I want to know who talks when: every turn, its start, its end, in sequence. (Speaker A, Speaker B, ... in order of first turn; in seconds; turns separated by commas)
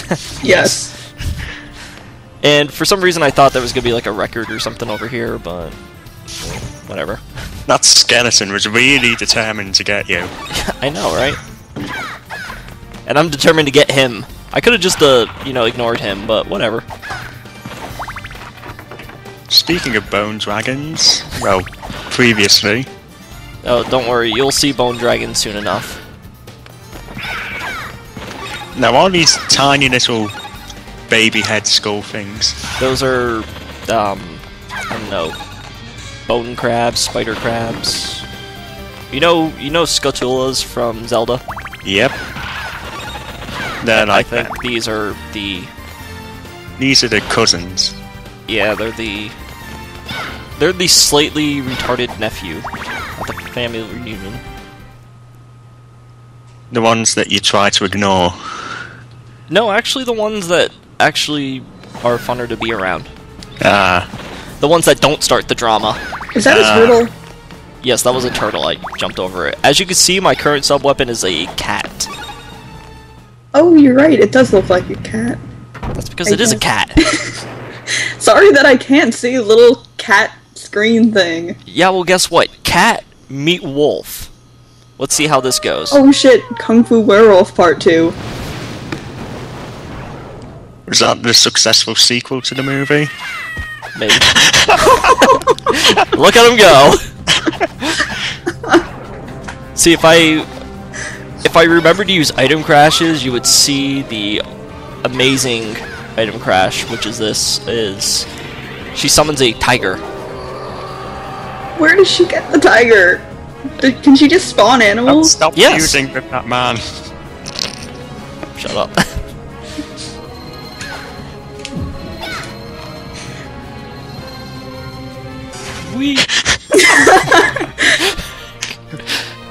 Speaker A: 0.4-0.9, Speaker B: 0.4-0.8, Speaker B: 2.4-5.8, Speaker B: 6.4-7.2, Speaker C: 7.7-10.3, Speaker B: 10.5-11.4, Speaker B: 13.1-16.8, Speaker C: 19.5-22.9, Speaker B: 23.6-26.0, Speaker C: 28.7-30.3, Speaker C: 31.1-32.6, Speaker B: 32.8-35.4, Speaker B: 36.2-38.2, Speaker B: 39.1-41.4, Speaker C: 41.8-42.1, Speaker C: 43.8-44.5, Speaker B: 43.9-45.7, Speaker C: 46.8-48.0, Speaker B: 48.5-49.4, Speaker B: 50.6-54.4, Speaker C: 56.7-58.8, Speaker B: 59.5-63.1, Speaker C: 63.6-64.1, Speaker B: 64.6-66.0, Speaker A: 66.3-67.1, Speaker C: 66.4-67.0, Speaker B: 67.8-72.1, Speaker A: 73.5-75.4, Speaker B: 75.9-77.0, Speaker A: 76.2-77.4, Speaker A: 78.2-81.6, Speaker B: 81.7-84.3, Speaker B: 85.0-86.0, Speaker A: 85.9-88.2, Speaker C: 90.9-93.1, Speaker B: 93.9-94.3, Speaker C: 94.2-95.3, Speaker B: 94.8-97.0, Speaker B: 99.7-100.5, Speaker B: 101.4-104.4, Speaker B: 105.0-108.3, Speaker B: 108.9-110.0, Speaker A: 111.8-113.2, Speaker A: 113.8-115.3, Speaker C: 115.0-116.8, Speaker B: 115.5-116.0, Speaker B: 118.5-119.1, Speaker B: 125.8-126.3, Speaker A: 126.9-127.4